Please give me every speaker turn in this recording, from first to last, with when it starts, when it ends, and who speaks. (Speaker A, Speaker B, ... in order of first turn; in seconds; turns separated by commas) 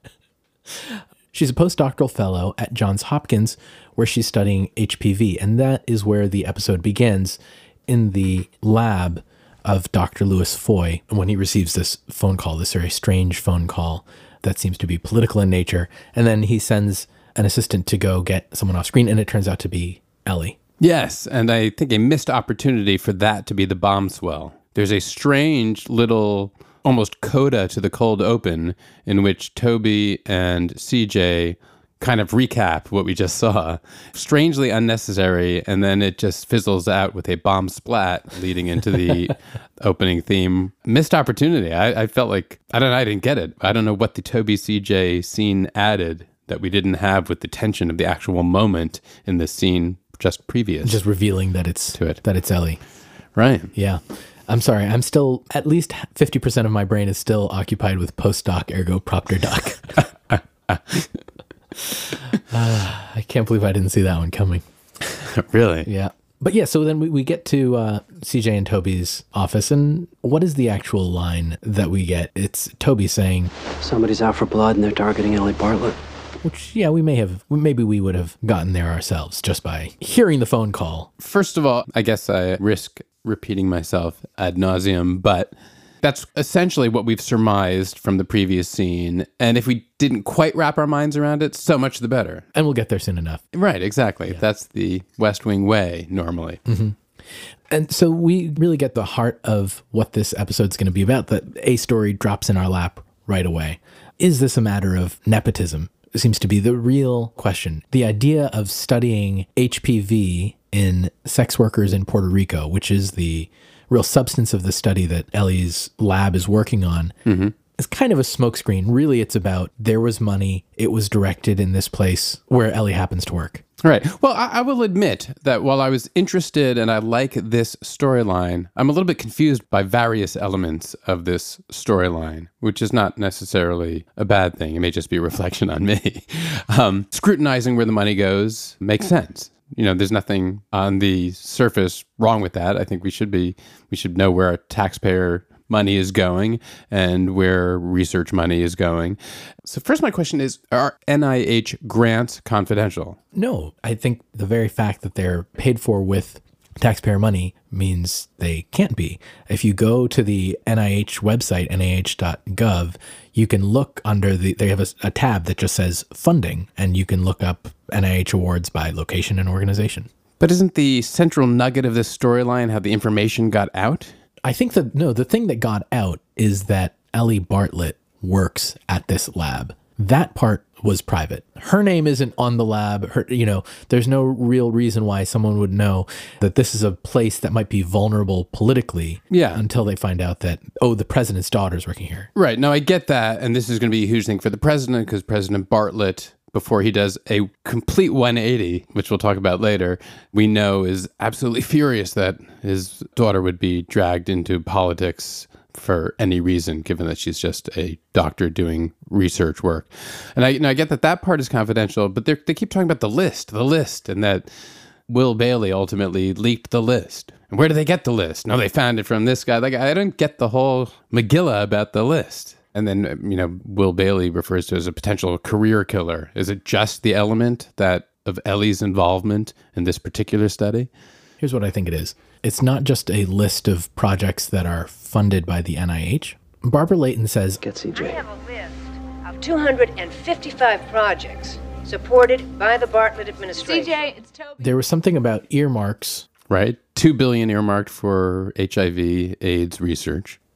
Speaker A: 0.7-20.6, Speaker B: 20.8-51.0, Speaker A: 50.8-52.8, Speaker B: 53.4-53.7, Speaker A: 53.7-59.9, Speaker B: 60.3-61.1, Speaker A: 62.5-64.6, Speaker B: 65.3-65.9, Speaker A: 65.8-73.5, Speaker C: 73.8-76.0, Speaker A: 76.4-81.1, Speaker B: 81.2-92.5, Speaker A: 92.5-93.4, Speaker B: 93.5-96.6, Speaker A: 96.7-97.0, Speaker A: 97.7-117.2, Speaker B: 117.3-117.5, Speaker A: 117.8-123.6, Speaker B: 123.8-153.2, Speaker A: 153.3-170.1, Speaker B: 170.4-174.1, Speaker A: 174.4-192.3, Speaker B: 189.3-189.6, Speaker B: 192.3-214.5, Speaker B: 215.1-230.9, Speaker A: 231.4-237.6, Speaker C: 237.6-238.2, Speaker D: 237.9-244.2, Speaker A: 244.6-246.3, Speaker B: 246.5-250.4